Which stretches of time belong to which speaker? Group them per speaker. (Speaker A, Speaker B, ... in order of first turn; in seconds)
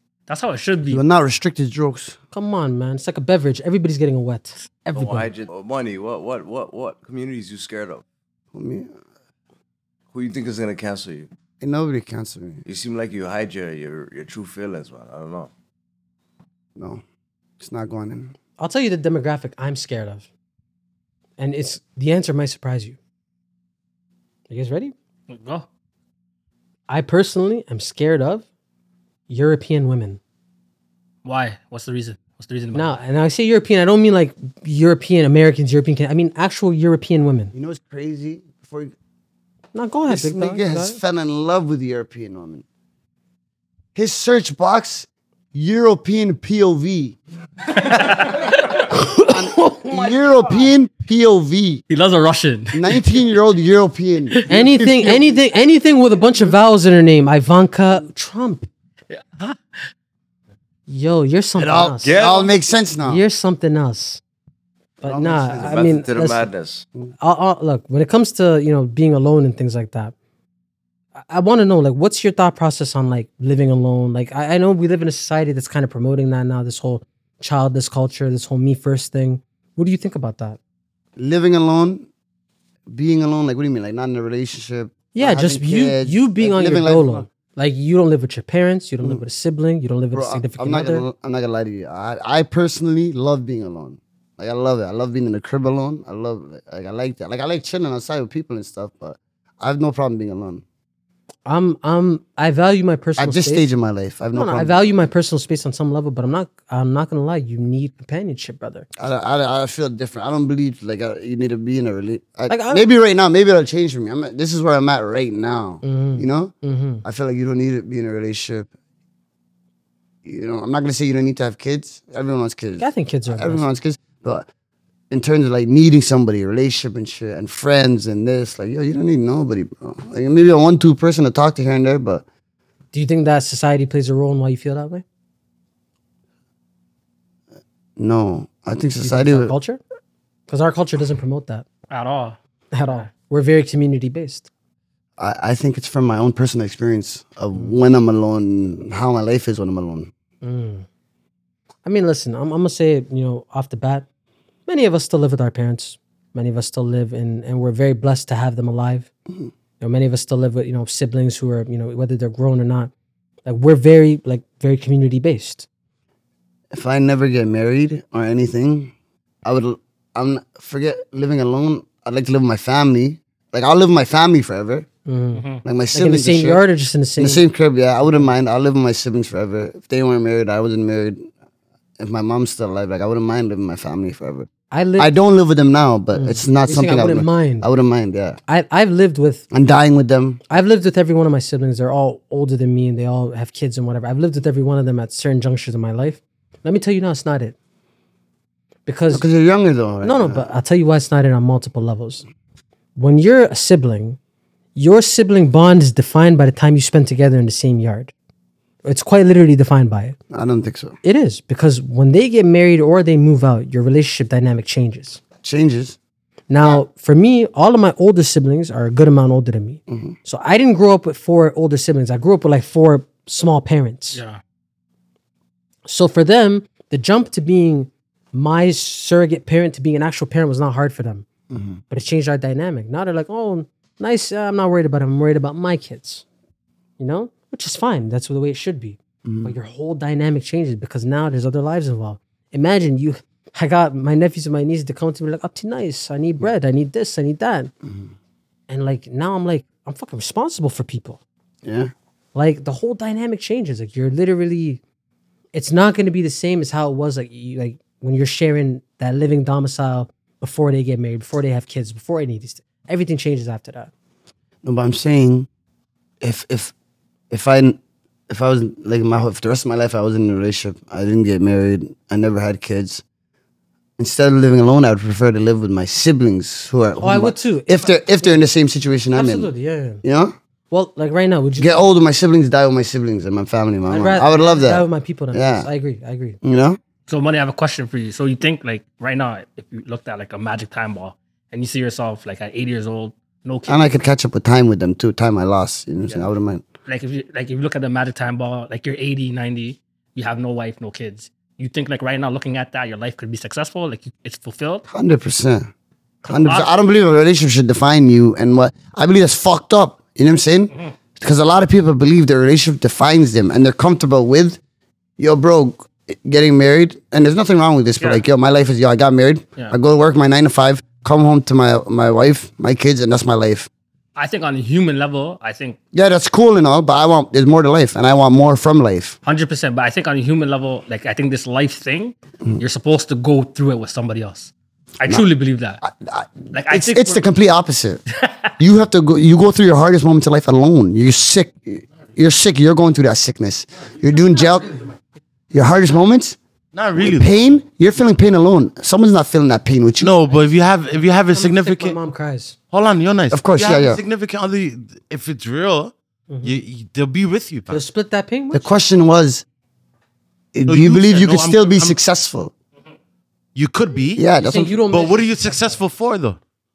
Speaker A: 0.3-1.0, 25.3-25.7, 31.2-32.9, 47.7-48.8, 51.9-53.0, 59.1-59.8, 141.9-142.4, 175.3-175.6, 224.1-224.4, 287.1-294.0, 296.9-304.8, 306.2-306.7, 324.1-325.8, 329.2-335.8, 336.5-337.2, 338.2-338.5
Speaker B: 0.9-2.2, 8.5-8.9, 11.6-12.6, 16.8-17.0, 17.6-18.3, 37.5-38.9, 40.1-42.6, 43.9-47.2, 49.3-51.8, 52.7-55.4, 61.6-63.2, 65.0-65.9, 81.2-82.1, 82.9-87.2, 90.1-100.6, 103.2-104.9, 109.0-116.5, 117.0-118.7, 120.2-124.5, 125.1-132.2, 138.0-139.5, 145.2-150.1, 166.7-168.9, 169.4-174.9, 175.6-176.6, 177.2-181.3, 182.0-188.4, 189.5-190.4, 199.1-200.5, 210.3-211.0, 215.4-216.0, 219.9-220.1, 231.5-231.8, 239.2-239.5, 247.8-248.1, 251.6-251.9, 264.6-265.5, 266.2-266.7, 267.3-273.0, 274.0-279.5, 280.0-280.3, 281.6-285.7, 286.4-286.8, 293.7-296.6, 304.9-305.7, 306.3-314.6, 315.2-323.7, 325.9-329.2, 335.8-338.0, 338.6-344.8, 345.5-346.4, 347.0-350.1, 353.3-354.0, 358.5-359.4, 360.5-362.5, 364.1-364.8
Speaker C: 2.3-5.3, 18.6-20.3, 21.4-23.0, 24.5-24.9, 26.9-28.4, 29.3-30.2, 32.7-37.5, 39.7-41.0, 48.9-50.1, 54.5-58.7, 60.9-62.1, 63.0-64.2, 65.0-66.5, 67.2-70.1, 71.2-80.6, 85.1-91.0, 101.5-103.7, 104.3-108.9, 112.5-112.8, 115.8-117.0, 122.8-123.7, 132.9-135.0, 139.0-139.8, 140.5-141.7, 142.7-144.5, 150.4-150.8, 151.8-154.1, 154.7-159.1, 159.8-162.9, 163.4-165.7, 175.1-177.4, 184.7-185.1, 186.1-187.7, 188.5-189.4, 190.5-197.5, 198.8-199.2, 200.0-202.2, 202.9-204.2, 204.7-208.1, 208.8-210.2, 211.0-215.2, 216.5-224.2, 225.8-231.3, 231.9-236.2, 237.0-247.7, 248.7-251.2, 252.3-254.8, 255.5-263.9, 277.0-278.4, 279.1-280.0, 280.7-281.8, 283.9-286.4, 351.3-352.6, 356.3-356.6, 357.7-358.7, 364.4-365.8
Speaker D: 4.9-8.0, 10.1-11.3, 12.6-15.5, 62.0-62.5, 65.6-66.8
Speaker E: 346.7-347.3, 350.0-352.0, 352.7-355.9, 356.4-357.8, 360.7-362.0, 363.5-364.2, 364.8-366.4